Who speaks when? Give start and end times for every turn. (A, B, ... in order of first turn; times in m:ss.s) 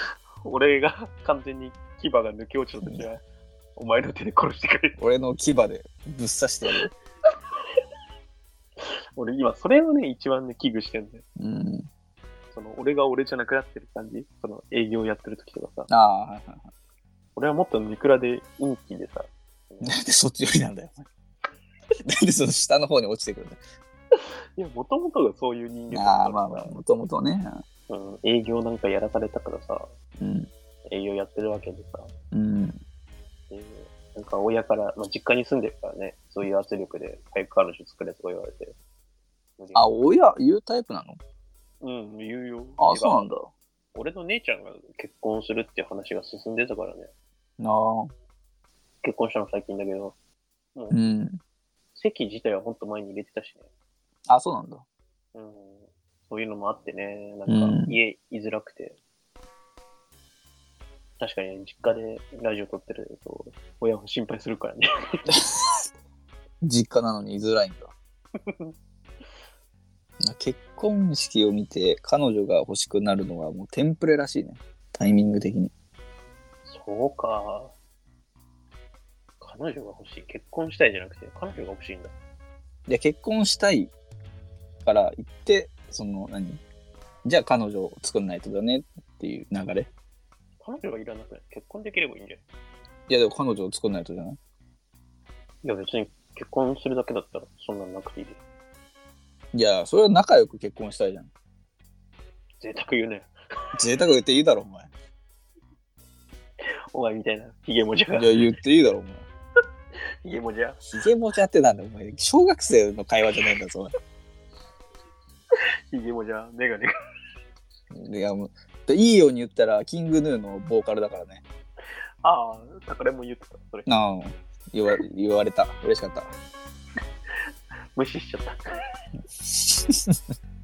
0:00.4-0:03.2 A
0:02.8-0:03.1 B
0:03.8-0:05.0 A
0:05.0-0:06.9 B
0:08.8-0:11.2 A
0:11.4-0:11.9 B
0:12.5-0:15.9 A
0:15.9-0:16.7 B
0:17.4-0:20.0 A
0:19.8-0:21.1 B
0:22.1-0:23.6 B
0:24.1-0:26.8 A
0:25.9-0:27.6 B
0:27.9-0:29.9 A
0:30.2-0:30.5 B
0:30.9-0:32.1 A
0:32.3-0:32.8 B
0:33.5-0:38.8 A
0:39.6-0:39.9 A
0:39.7-0:41.2 B
0:41.8-0:43.3 A
0:42.8-0:43.5 B
0:43.9-0:47.1 A
0:47.6-0:48.1 B
0:49.0-0:50.2 A
0:50.8-0:51.0 A
0:50.9-0:51.4 B
0:52.0-0:53.7 A
0:54.3-0:54.8 B
0:55.3-0:59.0 A
0:57.5-0:58.0 B
1:01.2-1:05.3 A
1:05.3-1:05.8 B
1:06.6-1:07.9 B
1:08.5-1:08.7 A
1:10.2-1:15.7 B
1:16.7-1:17.7 A
1:19.4-1:22.1 A
1:22.9-1:23.9 B
1:24.8-1:26.6 B
1:27.2-1:29.9 B
1:30.6-1:32.4 A
1:33.1-1:34.4 B
1:35.6-1:38.4 A
1:39.5-1:41.3 B
1:42.6-1:43.3 A
1:43.8-1:44.9 B
1:46.9-1:48.5 A
1:48.1-1:49.3 B
1:50.2-1:50.9 A
1:50.9-1:53.9 B
1:55.9-1:56.9 A
1:57.9-2:01.4 B
2:02.2-2:03.9 A
2:03.9-2:06.3 B
2:08.0-2:08.6 A
2:09.4-2:10.2 B